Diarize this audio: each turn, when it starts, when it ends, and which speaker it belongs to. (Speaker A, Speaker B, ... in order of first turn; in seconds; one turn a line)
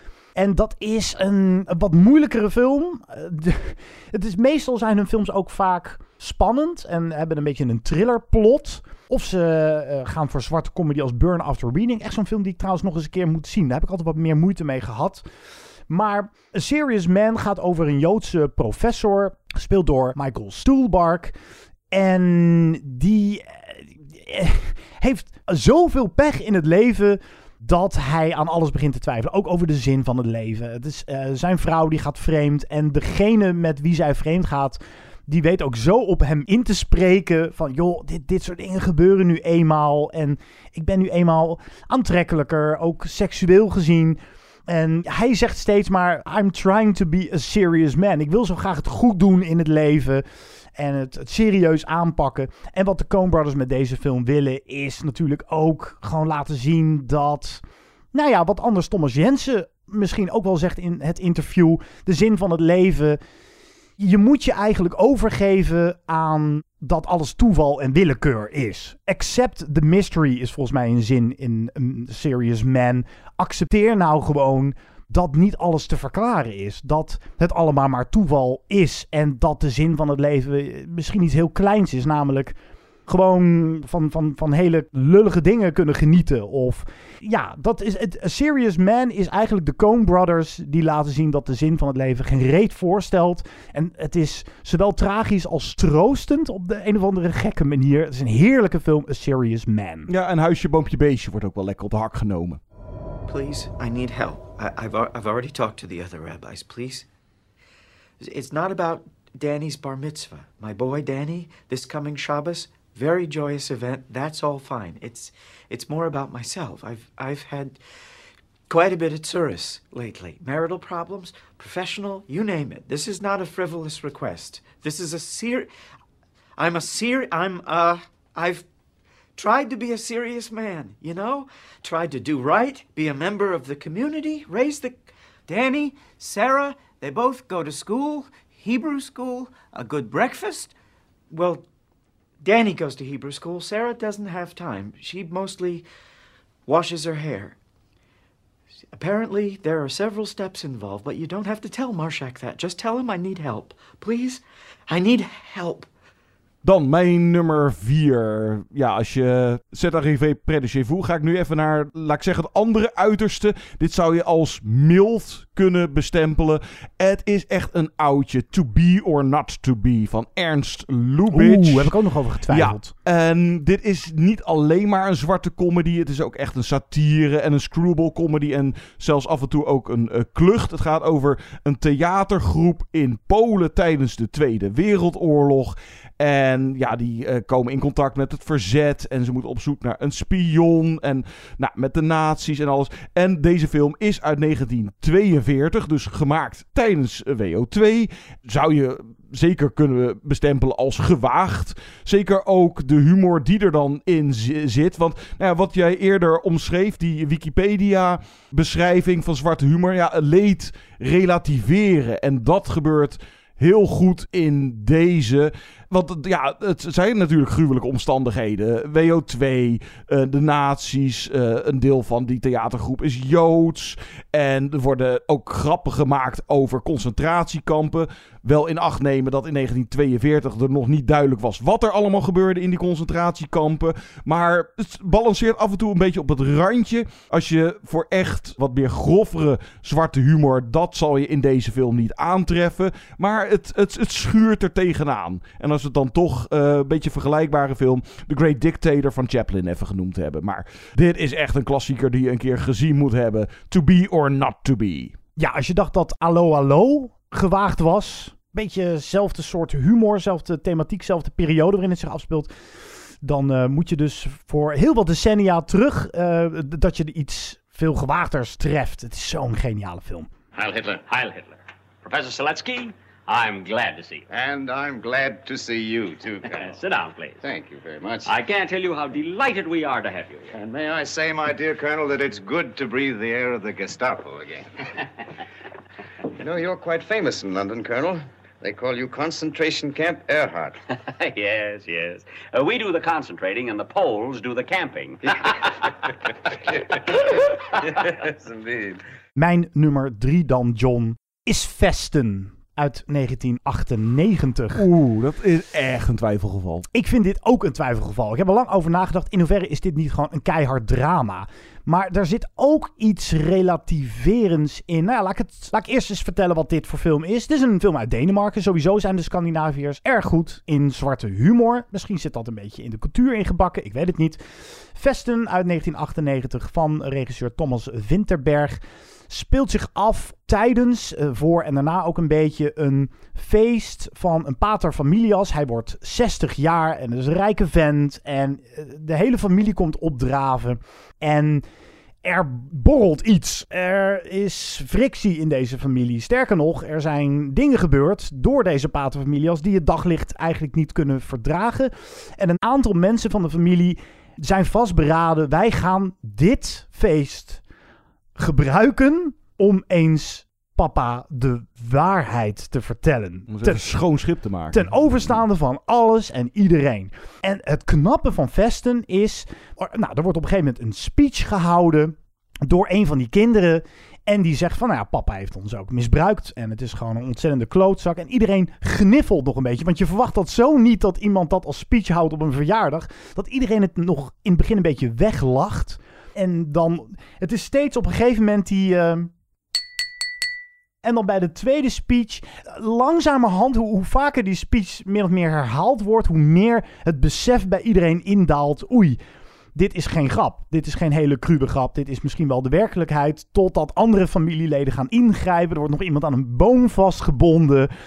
Speaker A: 0.3-15.2
Speaker A: 15.9-21.3
Speaker A: 21.9-50.2
Speaker A: 50.7-57.6
Speaker A: 58.1-63.2
Speaker A: 64.0-82.5
Speaker A: 83.1-100.1
Speaker B: 100.1-102.6
Speaker C: 103.3-107.1
Speaker C: 108.2-117.8
Speaker C: 118.7-125.7
Speaker C: 126.6-128.7
Speaker C: 129.3-140.8
Speaker C: 141.3-141.7
Speaker C: 142.4-145.9
Speaker C: 146.7-147.6
Speaker C: 148.9-155.9
Speaker B: 156.6-255.2
Speaker A: 171.3-172.9
Speaker A: 255.4-262.5
Speaker A: 263.2-270.3
Speaker D: 270.5-274.2
Speaker E: 274.3-276.8
Speaker D: 276.5-277.4
Speaker E: 277.4-278.4
Speaker D: 278.2-280.5
Speaker E: 280.5-284.7
Speaker E: 286.4-290.8
Speaker D: 291.1-295.9
Speaker E: 296.7-299.0
Speaker A: 299.4-304.9
Speaker B: 304.7-306.9
Speaker A: 306.9-324.4
Speaker A: 324.9-341.6
Speaker A: 342.2-357.6
Speaker A: 358.4-363.8
Speaker B: 363.5-365.4
Speaker A: 364.7-389.3
Speaker A: 391.0-399.2
Speaker A: 399.7-407.9